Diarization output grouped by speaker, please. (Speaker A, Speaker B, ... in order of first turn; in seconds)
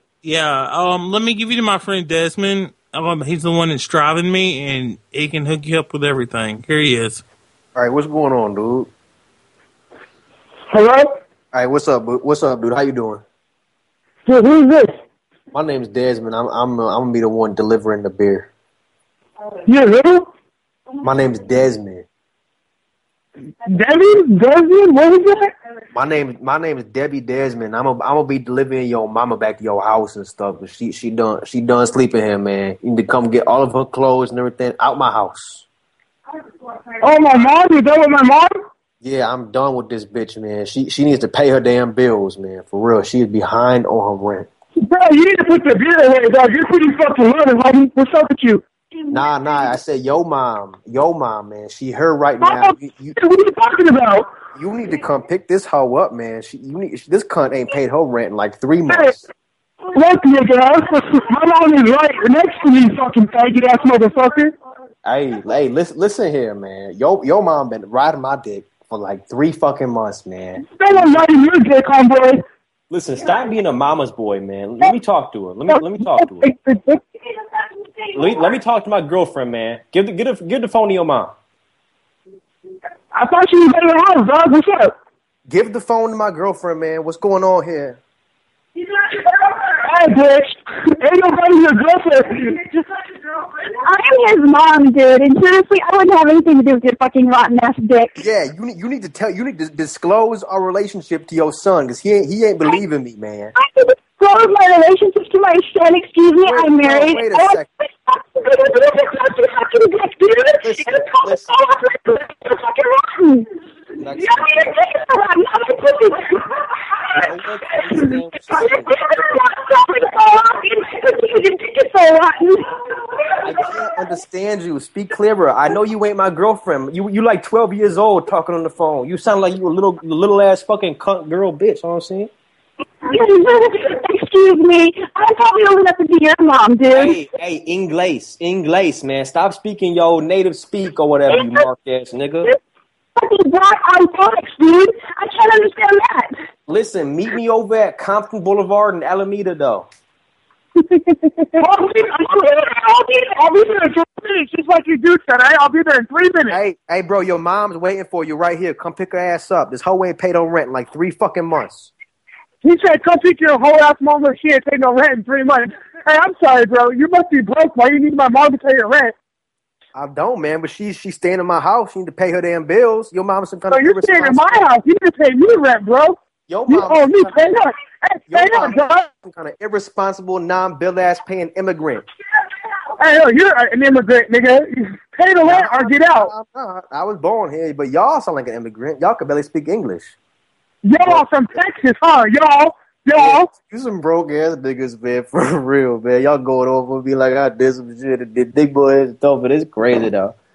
Speaker A: 0.2-7.2
Speaker B: 7.8-8.9, 11.5-13.2, 15.5-18.5, 21.0-22.0, 25.9-35.7, 39.0-44.5, 49.1-53.2, 54.5-59.3, 65.1-71.2, 85.5-88.0, 98.2-103.5, 106.4-107.7, 110.6-111.5, 114.0-114.7, 117.2-118.9, 123.5-132.3, 136.9-139.3, 140.0-141.3, 142.0-142.4, 146.7-149.9, 156.5-161.9, 169.9-174.6, 176.5-177.4, 178.3-182.1, 185.4-190.2, 193.2-200.3
Speaker C: 10.7-11.1, 14.3-14.9, 19.7-20.3, 23.7-25.5, 37.0-38.5, 44.8-48.6, 52.4-54.3, 58.9-59.1, 59.9-64.5, 70.6-72.4, 75.7-77.0, 83.1-85.0, 89.7-92.6, 150.8-156.6, 162.6-169.1, 173.7-176.2, 176.7-179.1, 183.0-186.3, 190.8-193.5
Speaker D: 72.9-76.4, 78.2-81.3, 130.0-131.1, 139.0-142.4, 148.6-149.4
Speaker E: 77.8-78.5, 93.7-98.1, 103.5-113.5, 114.0-116.6, 117.2-124.2, 133.1-137.2, 143.2-146.4